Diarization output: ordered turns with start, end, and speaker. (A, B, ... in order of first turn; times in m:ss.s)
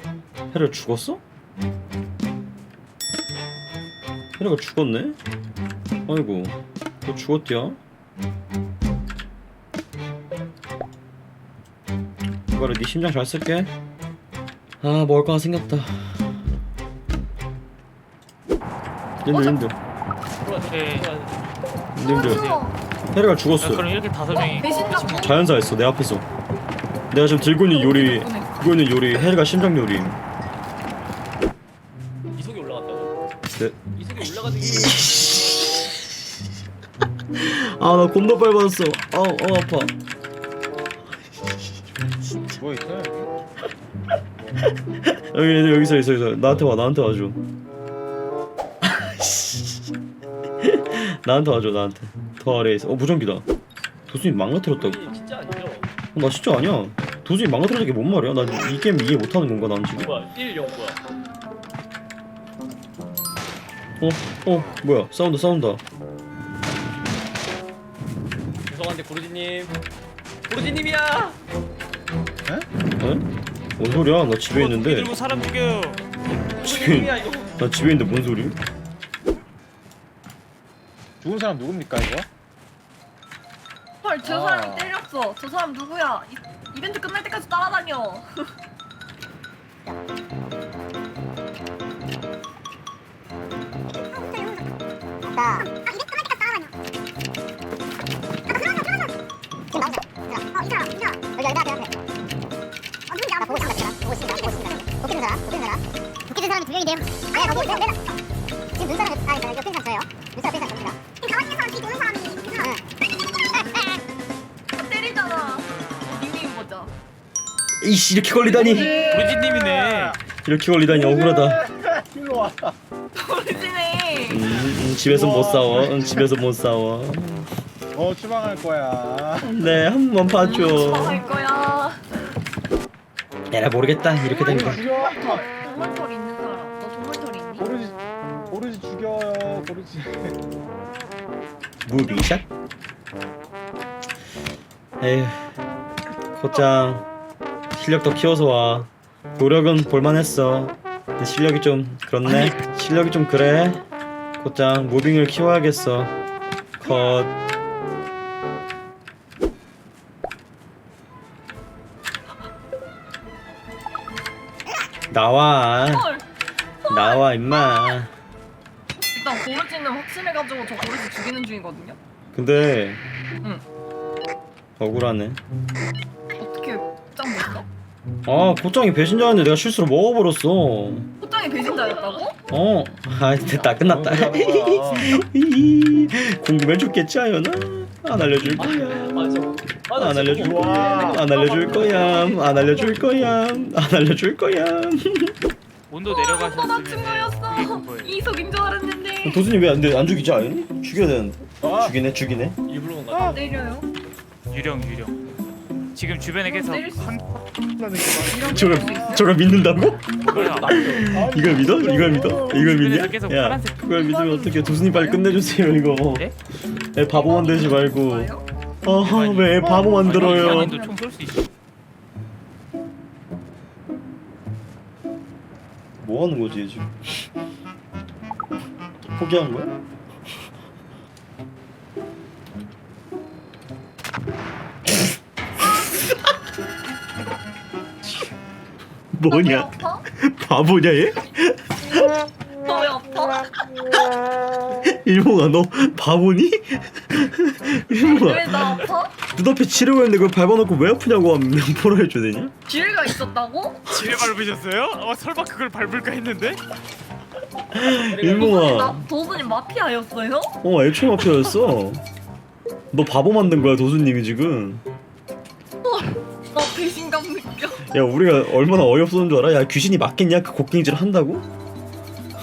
0:00.5-0:01.2 A
0:04.4-0:05.2 A
0:06.1-0:07.8 A
0:12.5-0:13.7 A
0:14.8-0:16.4 A
0:19.2-0:19.7 A
0:19.3-0:19.6 B
0:20.4-0:21.5 C
0:20.6-0:21.2 D
0:22.0-0:22.4 A
0:22.0-0:22.8 B
0:22.2-0:22.7 D
0:23.1-0:23.9 A
0:23.6-0:25.4 D
0:24.3-0:25.4 B
0:25.0-0:26.2 A
0:27.1-0:30.2 A
0:27.6-0:28.8 B
0:32.3-0:33.1 C
0:33.5-0:36.0 A
0:33.9-0:35.9 C
0:37.3-0:39.9 A
0:41.3-0:42.6 A
0:42.6-0:43.3 E
0:45.1-0:47.4 A
0:48.8-0:49.9 A
0:50.6-0:53.4 A
0:54.1-0:55.0 A
0:54.7-0:55.9 C
0:56.1-1:00.1 A
1:00.0-1:01.0 C
1:04.0-1:05.8 A
1:08.7-1:09.8 C
1:10.5-1:11.4 C
1:13.0-1:13.2 A
1:13.8-1:15.1 A
1:14.5-1:16.0 D
1:16.5-1:17.5 C
1:16.5-1:18.6 A
1:21.2-1:22.3 E
1:24.0-1:28.5 B
1:24.2-1:24.9 E
1:34.1-1:34.6 F
1:35.2-1:36.7 F
1:38.5-1:39.1 F
1:39.7-1:41.9 F
1:43.1-1:48.1 F
1:48.7-1:52.8 F
1:53.6-1:53.9 F
1:54.7-1:56.9 B
1:57.8-1:59.0 A
1:58.4-2:00.2 E
1:58.5-1:59.3 B
1:59.1-2:00.2 D
2:00.4-2:01.6 A
2:00.9-2:02.8 E
2:03.1-2:04.6 B
2:04.3-2:07.5 A
2:05.0-2:06.3 E
2:07.9-2:09.5 E
2:09.4-2:11.2 A
2:10.4-2:12.0 B
2:13.5-2:14.9 A
2:14.2-2:17.7 B
2:14.4-2:15.5 E
2:17.6-2:18.0 E
2:18.5-2:20.4 E
2:21.8-2:22.4 A
2:25.0-2:25.5 A
2:26.3-2:27.1 A
2:27.7-2:33.8 A
2:34.4-2:36.1 A
2:36.8-2:37.3 A
2:36.8-2:37.2 B
2:45.1-2:46.1 A
2:45.9-2:46.2 B
2:46.8-2:47.9 B
2:46.8-2:48.1 A
2:49.1-2:52.0 B
2:52.3-2:53.0 A
2:54.8-2:55.4 A
2:56.4-2:57.6 B
2:58.2-3:01.1 A
3:01.2-3:02.4 B
3:02.5-3:09.2 A
3:03.7-3:05.2 E
3:08.6-3:12.2 C
3:09.9-3:15.3 A
3:10.4-3:11.2 E
3:11.2-3:13.2 B
3:15.9-3:18.2 D
3:16.1-3:19.5 B
3:19.2-3:22.6 A
3:21.6-3:21.9 E
3:22.7-3:23.4 C
3:23.1-3:23.4 E
3:23.3-3:23.9 B
3:24.5-3:25.2 D
3:25.9-3:27.2 D
3:26.4-3:27.2 B
3:27.8-3:29.3 E
3:28.2-3:29.3 B
3:28.4-3:36.3 A
3:30.2-3:31.2 D
3:30.3-3:31.2 C
3:31.0-3:32.7 E
3:32.5-3:33.9 D
3:33.9-3:35.3 B
3:36.1-3:36.4 D
3:36.9-3:40.8 A
3:37.1-3:38.4 B
3:39.0-3:41.5 D
3:39.8-3:40.4 E
3:40.2-3:41.0 B
3:46.0-3:46.9 A
3:49.1-3:49.7 A
3:59.1-4:01.8 A
3:59.3-4:00.0 B
4:02.6-4:03.6 B
4:04.8-4:12.5 A
4:07.9-4:09.2 B
4:12.7-4:13.8 B
4:13.9-4:16.6 D
4:17.7-4:19.1 A
4:18.1-4:18.7 C
4:18.3-4:20.6 B
4:20.6-4:22.0 A
4:22.9-4:24.8 A
4:25.8-4:27.8 B
4:27.8-4:31.4 A